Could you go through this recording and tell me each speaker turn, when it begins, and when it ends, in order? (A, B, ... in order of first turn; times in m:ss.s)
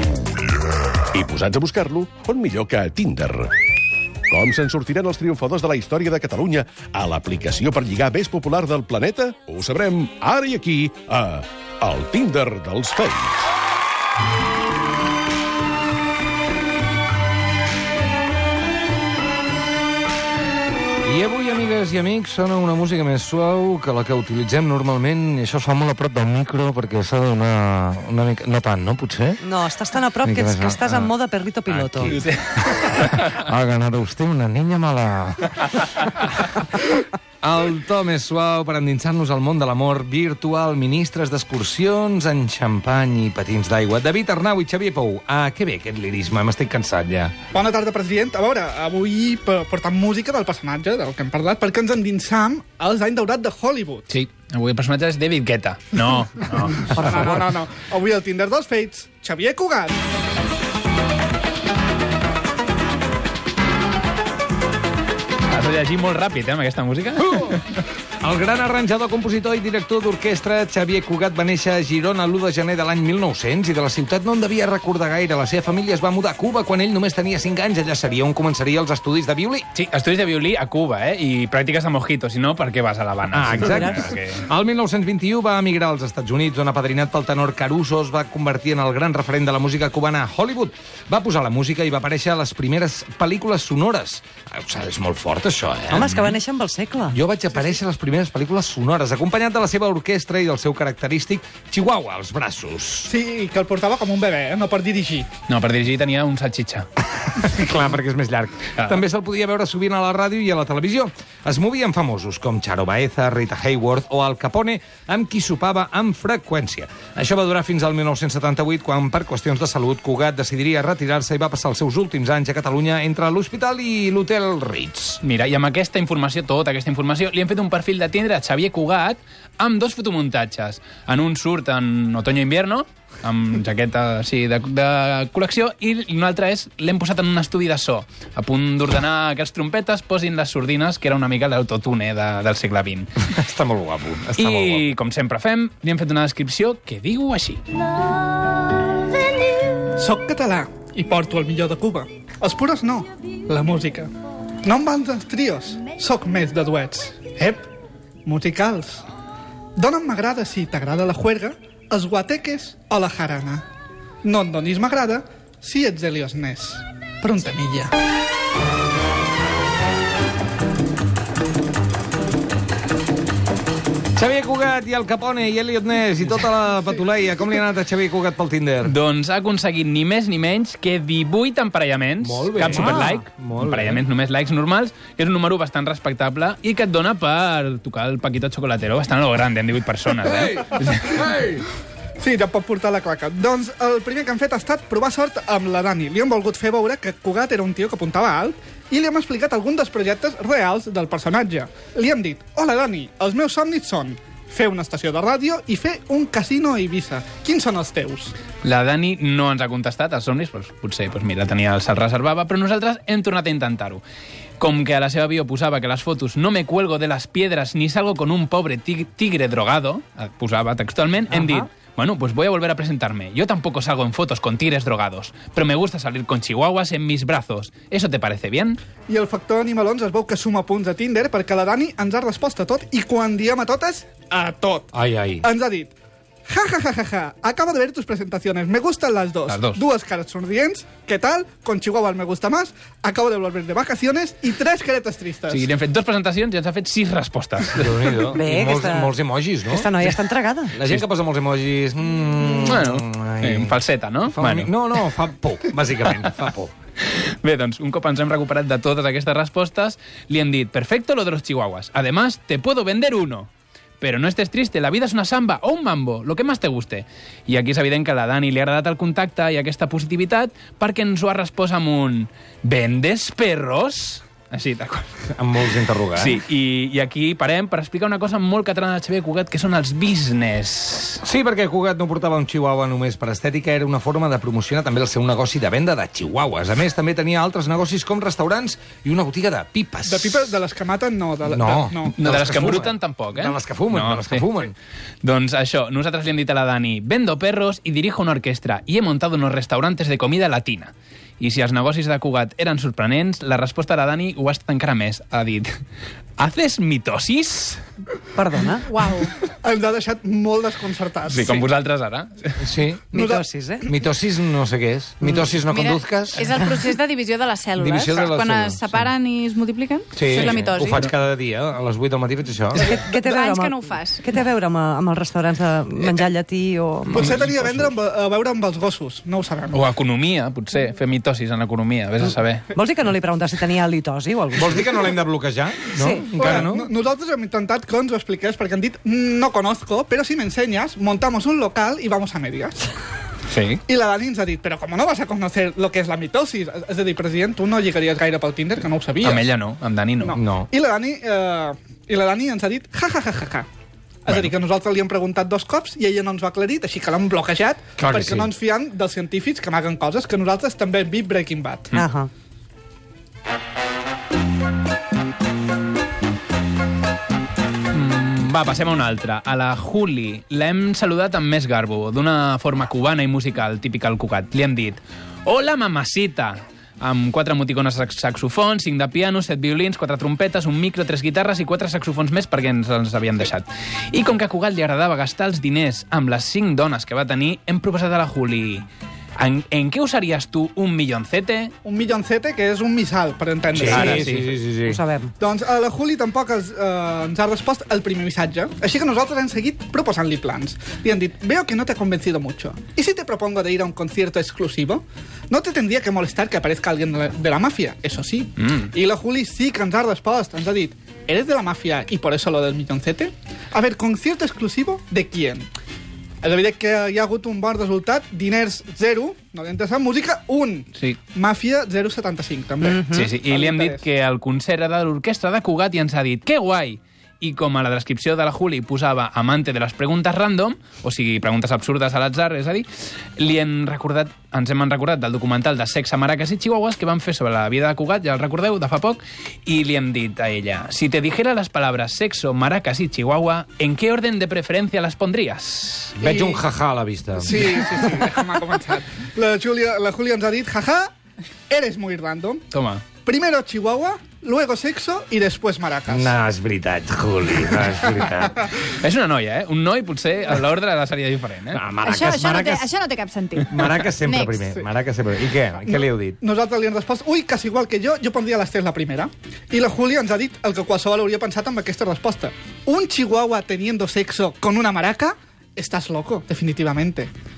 0:01.1-0:03.5 A
0:04.3-0:13.5 A
0:21.1-0:29.4 B
0:29.4-0:32.1 C
0:30.2-0:31.1 B
0:31.7-0:32.2 B
0:32.1-0:33.3 D
0:32.9-0:35.6 B
0:37.4-0:47.3 B
0:47.5-0:54.1 E
0:54.1-0:57.3 D
0:56.7-1:00.0 E
1:05.4-1:07.6 D
1:07.2-1:07.6 B
1:08.2-1:19.6 B
1:19.7-1:24.4 D
1:23.3-1:36.3 B
1:35.9-1:37.2 C
1:37.1-1:43.1 B
1:43.1-1:45.3 E
1:45.5-1:46.9 D
1:47.2-2:05.2 B
1:48.8-1:49.0 D
2:05.2-2:23.2 D
2:23.2-2:24.9 B
2:24.4-2:27.6 D
2:30.0-2:34.1 E
2:34.6-2:37.7 E
2:38.2-2:39.0 E
2:39.8-2:43.6 E
2:44.2-2:47.9 E
2:54.2-2:59.0 B
2:58.8-3:11.2 D
3:02.2-3:04.0 B
3:02.8-3:03.1 C
3:10.2-3:11.6 B
3:12.2-3:28.3 E
3:28.6-3:34.0 D
3:34.6-3:48.8 D
3:49.1-3:55.9 E
3:54.9-3:55.4 B
3:56.5-4:05.7 E
3:59.5-3:59.8 D
4:05.5-4:08.2 D
4:07.7-4:10.0 B
4:08.3-4:09.1 C
4:09.7-4:10.8 C
4:10.7-4:16.7 B
4:12.6-4:14.7 D
4:17.0-4:35.1 D
4:35.4-4:36.4 B
4:36.1-4:41.2 D
4:41.2-4:50.5 B
4:50.1-4:52.2 E
4:51.4-4:54.7 B
4:52.2-4:54.5 D
4:55.2-5:05.8 D
5:06.4-5:07.8 D
5:08.4-5:09.3 C
5:08.9-5:09.3 F
5:09.5-5:11.7 E
5:11.3-5:12.7 D
5:12.6-5:13.2 B
5:13.1-5:13.5 E
5:13.2-5:13.9 C
5:13.9-5:16.8 B
5:15.7-5:21.0 F
5:17.8-5:19.1 B
5:20.2-5:23.0 B
5:22.8-5:27.3 C
5:23.2-5:24.3 F
5:27.1-5:27.7 D
5:27.1-5:29.8 E
5:29.7-5:32.7 D
5:32.7-5:34.8 C
5:34.5-5:36.9 B
5:36.0-5:36.3 C
5:36.4-5:42.9 E
5:43.5-5:43.8 D
5:43.9-5:49.5 E
5:49.2-5:50.4 D
5:50.2-5:53.7 E
5:50.3-5:50.7 B
5:54.3-6:02.0 E
5:58.0-5:58.5 B
6:02.0-6:02.3 C
6:07.9-6:28.8 D
6:29.4-6:31.7 D
6:31.8-6:34.3 E
6:33.7-6:35.0 B
6:33.8-6:34.6 D
6:34.9-6:35.3 C
6:35.4-6:55.7 E
6:48.6-6:48.9 D
6:56.4-7:04.0 E
7:03.1-7:26.1 D
7:26.2-7:28.1 B
7:26.2-7:26.6 E
7:27.4-7:31.1 E
7:31.7-7:32.6 E
7:32.7-7:33.0 D
7:33.2-7:36.4 E
7:36.1-7:38.7 B
7:38.8-7:41.8 D
7:41.7-7:42.9 B
7:42.0-7:44.6 F
7:43.1-7:43.4 C
7:43.7-7:46.4 B
7:45.8-7:57.3 E